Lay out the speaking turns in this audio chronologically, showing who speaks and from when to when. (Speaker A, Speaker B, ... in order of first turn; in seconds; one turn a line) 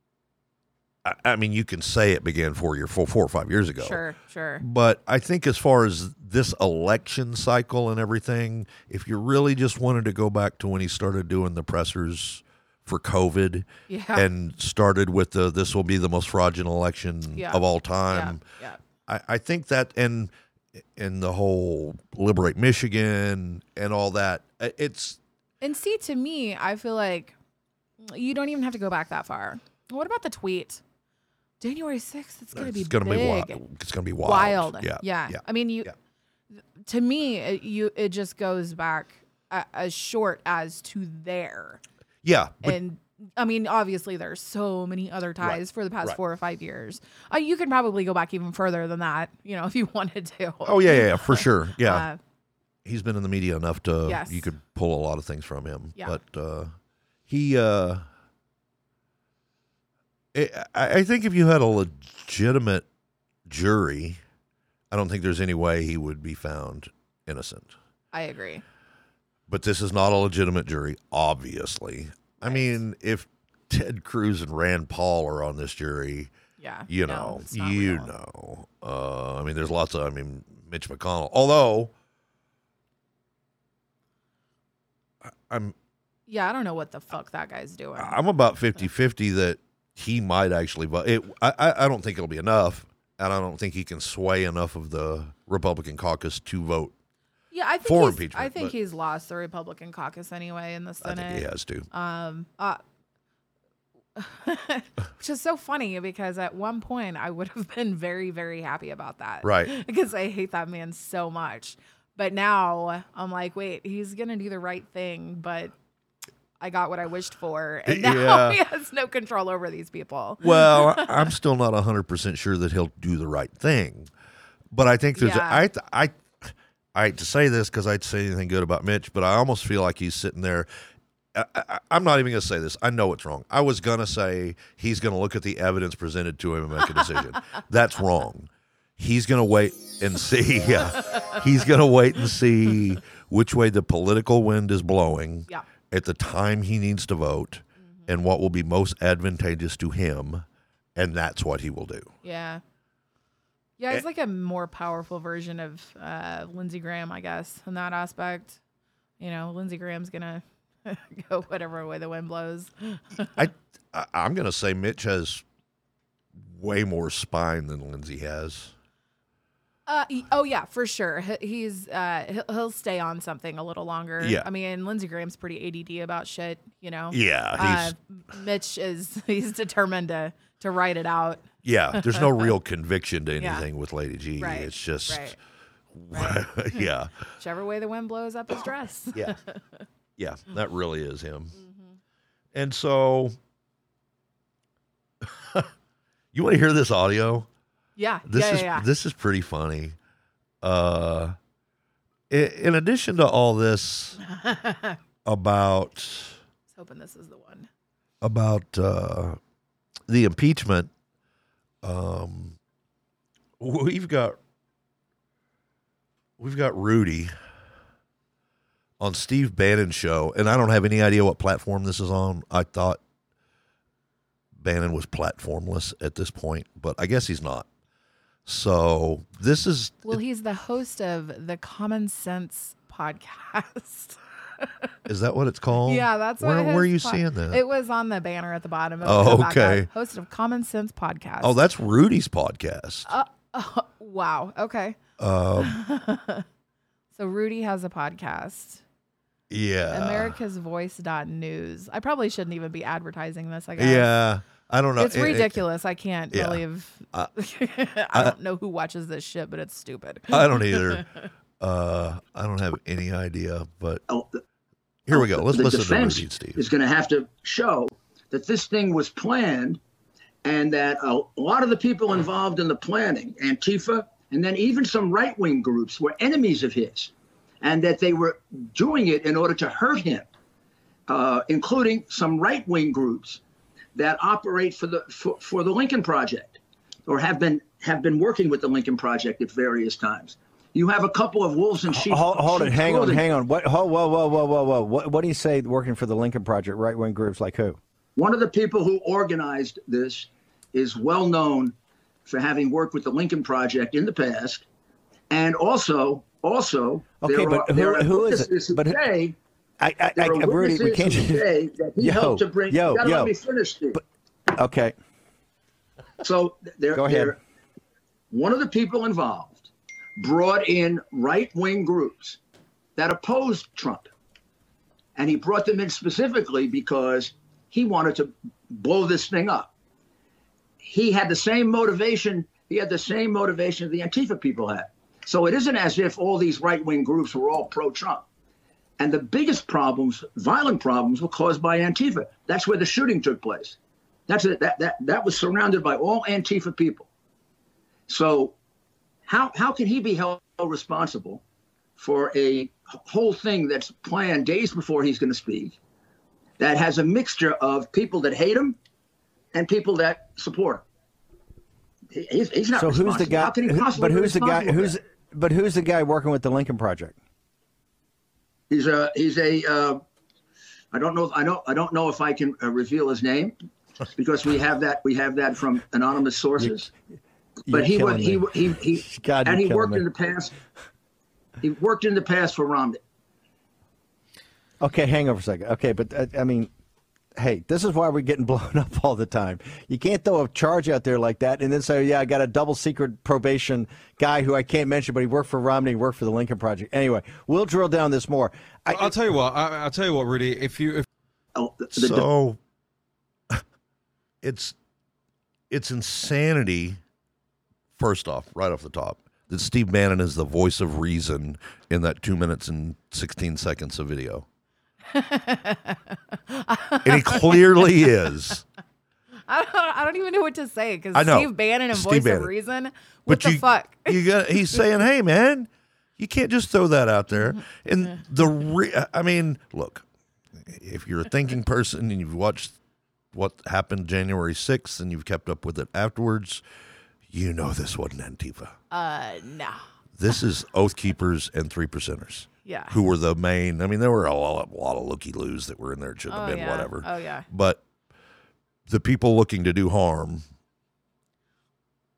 Speaker A: 1.0-4.0
Speaker B: 3.8-4.6
Speaker A: 4.6-18.4
Speaker B: 13.9-14.3
Speaker B: 17.4-18.8
Speaker A: 19.1-20.3
Speaker A: 21.0-25.2
Speaker B: 25.6-27.4
Speaker B: 28.0-30.8
Speaker B: 31.6-33.6
Speaker A: 32.5-35.9
Speaker B: 34.2-35.9
Speaker B: 36.8-41.8
Speaker A: 42.2-42.8
Speaker B: 42.6-52.2
Speaker A: 45.4-46.2
Speaker A: 50.6-52.1
Speaker A: 52.9-56.7
Speaker B: 54.1-54.5
Speaker A: 57.3-58.0
Speaker A: 60.3-62.9
Speaker A: 63.5-64.2
Speaker A: 64.9-67.7
Speaker B: 68.1-68.6
Speaker A: 69.5-76.3
Speaker B: 72.4-72.8
Speaker B: 76.6-78.1
Speaker A: 76.9-81.9
Speaker A: 85.3-85.8
Speaker B: 86.3-88.2
Speaker A: 88.0-96.9
Speaker B: 97.5-102.8
Speaker A: 97.8-98.7
Speaker A: 101.0-101.9
Speaker B: 104.2-115.7
Speaker A: 109.4-109.7
Speaker B: 116.6-121.3
Speaker A: 117.9-118.6
Speaker A: 120.4-124.1
Speaker A: 124.7-130.7
Speaker B: 125.2-125.7
Speaker A: 131.3-150.4
Speaker A: 151.0-152.1
Speaker B: 152.2-152.6
Speaker B: 153.8-158.6
Speaker B: 159.2-163.3
Speaker A: 163.3-165.4
Speaker A: 166.4-168.7
Speaker B: 169.9-182.5
Speaker A: 174.2-174.5
Speaker A: 177.1-177.9
Speaker A: 181.6-185.4
Speaker B: 183.4-183.7
Speaker B: 184.4-185.4
Speaker A: 185.9-187.1
Speaker B: 186.1-186.8
Speaker B: 187.4-189.8
Speaker A: 190.2-191.6
Speaker B: 191.6-192.0
Speaker A: 192.5-193.4
Speaker A: 195.2-195.7
Speaker A: 196.3-197.5
Speaker B: 198.0-198.9
Speaker A: 198.3-200.0
Speaker A: 200.6-201.4
Speaker A: 202.3-204.2
Speaker B: 204.2-205.0
Speaker A: 205.2-206.4
Speaker B: 206.7-207.7
Speaker A: 208.2-209.4
Speaker A: 210.1-210.9
Speaker A: 211.8-212.6
Speaker A: 213.6-214.4
Speaker A: 216.4-217.3
Speaker A: 219.0-223.0
Speaker A: 224.6-227.7
Speaker A: 228.5-230.2
Speaker B: 230.1-234.9
Speaker A: 235.1-237.6
Speaker B: 235.8-241.6
Speaker A: 239.0-239.9
Speaker A: 241.4-243.1
Speaker B: 243.1-245.0
Speaker A: 245.2-245.8
Speaker B: 245.6-246.5
Speaker B: 247.2-248.8
Speaker A: 249.5-250.4
Speaker B: 249.9-254.1
Speaker A: 253.8-255.6
Speaker B: 255.0-261.1
Speaker A: 256.3-256.6
Speaker A: 260.3-261.1
Speaker A: 261.6-264.0
Speaker C: 264.1-264.4
Speaker A: 265.1-266.6
Speaker C: 265.1-269.8
Speaker C: 270.4-280.3
Speaker C: 281.1-283.4
Speaker C: 283.9-293.3
Speaker D: 291.9-297.8
Speaker C: 298.2-301.8
Speaker C: 302.3-304.6
Speaker C: 305.3-309.4
Speaker D: 307.2-309.0
Speaker D: 309.8-311.5
Speaker C: 310.2-314.0
Speaker D: 312.0-313.3
Speaker D: 314.6-314.9
Speaker C: 316.2-317.4
Speaker D: 316.9-317.3
Speaker C: 318.3-322.4
Speaker C: 323.0-324.1
Speaker C: 325.2-329.7
Speaker C: 330.8-338.2
Speaker C: 339.0-343.8
Speaker C: 344.3-347.1
Speaker C: 348.1-348.6
Speaker C: 349.3-351.4
Speaker C: 352.0-355.8
Speaker C: 356.6-358.8
Speaker C: 359.5-360.9
Speaker C: 362.1-364.9
Speaker D: 362.8-367.2
Speaker C: 368.7-370.0
Speaker C: 370.9-373.6
Speaker C: 374.1-376.9
Speaker D: 377.7-380.0
Speaker C: 377.7-380.5
Speaker C: 381.6-383.0
Speaker D: 384.8-386.7
Speaker D: 387.4-399.1
Speaker E: 398.9-401.0
Speaker C: 401.6-402.3
Speaker A: 401.9-402.6
Speaker A: 404.4-404.8
Speaker A: 405.7-407.0
Speaker A: 408.0-414.5
Speaker B: 415.1-418.3
Speaker A: 417.0-418.6
Speaker B: 419.5-424.9
Speaker A: 421.1-422.5
Speaker A: 423.3-430.1
Speaker A: 430.6-432.8
Speaker A: 433.3-436.6
Speaker A: 437.3-438.8
Speaker B: 438.9-439.9
Speaker A: 440.2-447.8
Speaker B: 442.6-443.0
Speaker B: 446.3-447.5
Speaker A: 448.9-450.4